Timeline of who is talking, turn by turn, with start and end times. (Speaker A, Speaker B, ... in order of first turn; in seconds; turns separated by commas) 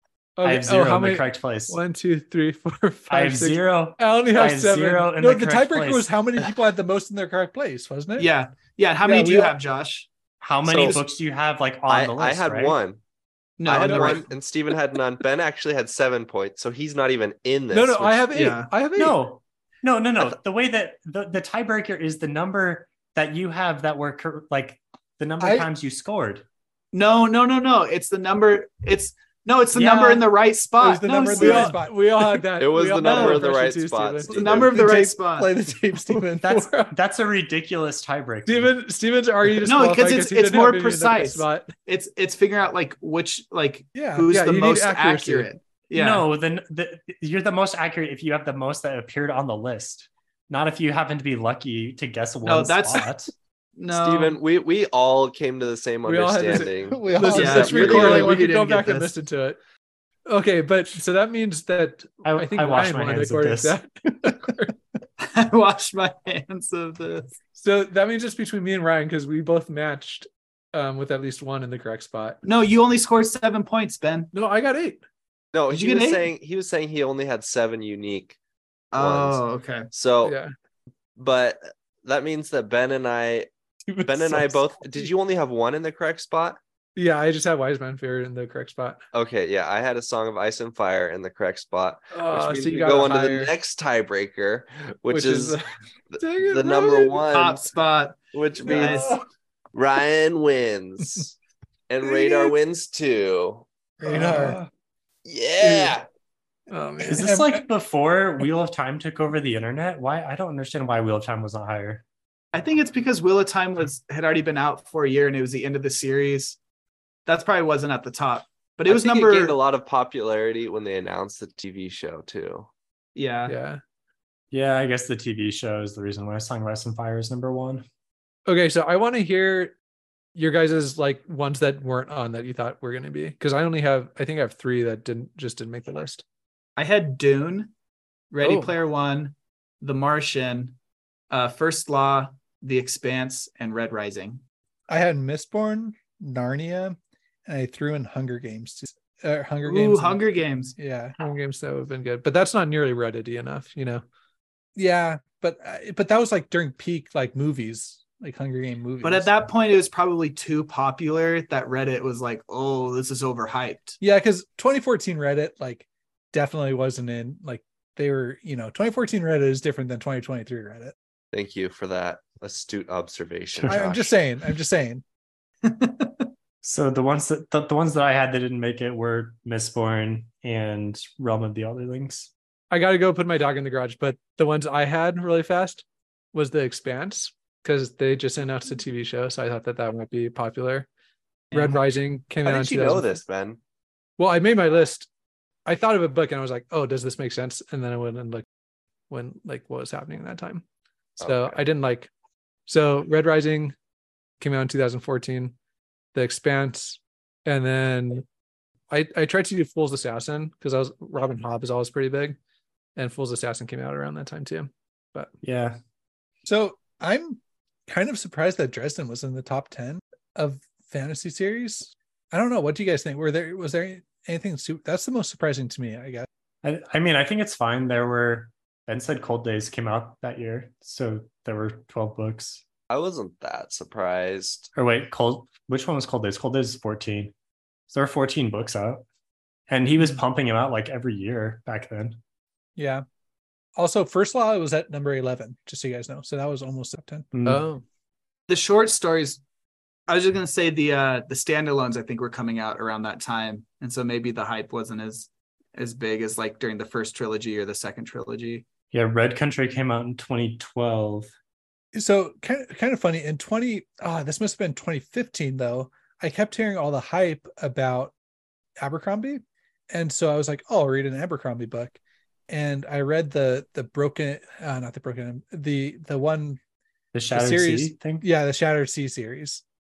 Speaker A: 0.4-5.1, Speaker B: 0.4-1.8, Speaker B: 3.1-6.1, Speaker C: 5.2-8.3, Speaker D: 8.2-10.1, Speaker C: 9.0-9.5, Speaker B: 10.4-12.8, Speaker E: 10.6-11.0, Speaker E: 11.9-13.0, Speaker D: 13.6-14.3, Speaker E: 13.7-18.3, Speaker A: 17.7-19.2, Speaker D: 18.3-18.7, Speaker B: 19.0-26.4, Speaker C: 25.4-25.7, Speaker D: 26.9-31.8, Speaker B: 29.8-30.2, Speaker C: 30.8-32.4, Speaker A: 31.2-34.4, Speaker E: 32.6-34.9, Speaker D: 33.0-33.5, Speaker D: 34.3-35.5, Speaker C: 34.4-36.7, Speaker A: 36.1-36.9, Speaker B: 36.4-38.8, Speaker A: 38.5-41.7, Speaker D: 39.6-46.3, Speaker C: 44.0-44.3, Speaker A: 44.3-45.5, Speaker B: 45.9-53.3, Speaker D: 52.4-53.1, Speaker D: 53.8-54.4, Speaker E: 53.9-58.3, Speaker A: 56.0-59.6, Speaker C: 56.8-58.4, Speaker D: 57.3-59.1, Speaker A: 60.3-64.7, Speaker B: 62.2-63.8, Speaker D: 65.2-67.4, Speaker A: 67.6-72.4, Speaker D: 72.4-74.3, Speaker A: 74.3-75.0, Speaker E: 75.5-78.4, Speaker D: 75.7-76.3, Speaker D: 78.9-79.9, Speaker E: 78.9-80.4, Speaker A: 80.2-80.5, Speaker E: 81.2-83.5, Speaker A: 83.9-84.8, Speaker E: 84.0-86.6, Speaker A: 87.0-89.0, Speaker E: 89.1-95.6, Speaker A: 92.1-93.5, Speaker A: 95.1-97.2, Speaker E: 96.1-97.7, Speaker D: 97.3-99.1, Speaker E: 98.3-99.1, Speaker E: 99.7-101.4, Speaker E: 101.9-103.7, Speaker C: 104.0-104.6, Speaker A: 104.1-104.7, Speaker E: 105.2-106.1, Speaker A: 105.6-105.9, Speaker A: 106.7-107.4, Speaker B: 107.0-112.0, Speaker C: 107.2-107.6, Speaker D: 112.5-116.6, Speaker D: 117.3-119.6, Speaker E: 118.9-122.7, Speaker D: 123.2-123.5, Speaker A: 123.5-123.8, Speaker B: 124.5-127.8, Speaker A: 128.5-129.7, Speaker A: 130.3-136.2, Speaker D: 136.8-137.7, Speaker D: 138.3-140.8, Speaker A: 138.4-138.7, Speaker D: 141.3-144.4, Speaker C: 144.9-150.2, Speaker D: 149.6-150.8, Speaker C: 150.8-151.2, Speaker A: 151.2-154.0, Speaker C: 154.8-159.3, Speaker D: 159.0-164.0, Speaker C: 164.0-170.9, Speaker E: 171.3-174.2, Speaker C: 173.7-175.0, Speaker D: 175.6-176.3, Speaker B: 176.6-182.3, Speaker A: 182.7-190.9, Speaker D: 191.5-191.8, Speaker A: 191.5-193.1, Speaker E: 192.4-193.6, Speaker A: 194.2-195.1, Speaker A: 195.7-198.4, Speaker A: 199.1-200.6, Speaker E: 201.2-201.6, Speaker A: 201.2-202.1, Speaker A: 202.7-203.8, Speaker A: 204.4-205.6, Speaker A: 206.1-208.2, Speaker A: 208.9-212.4, Speaker A: 213.0-215.3, Speaker B: 215.4-215.8, Speaker C: 216.4-226.3, Speaker B: 226.6-232.7, Speaker E: 232.9-234.7, Speaker B: 234.8-237.3, Speaker B: 237.9-239.1, Speaker B: 239.7-242.2, Speaker C: 242.8-243.0, Speaker C: 243.8-247.3, Speaker B: 247.3-247.6, Speaker A: 247.4-247.8, Speaker D: 248.5-249.4, Speaker D: 250.1-258.6, Speaker B: 258.9-261.3, Speaker C: 261.9-268.1, Speaker C: 268.8-272.0, Speaker C: 272.5-276.6, Speaker B: 277.1-278.2, Speaker C: 277.3-279.6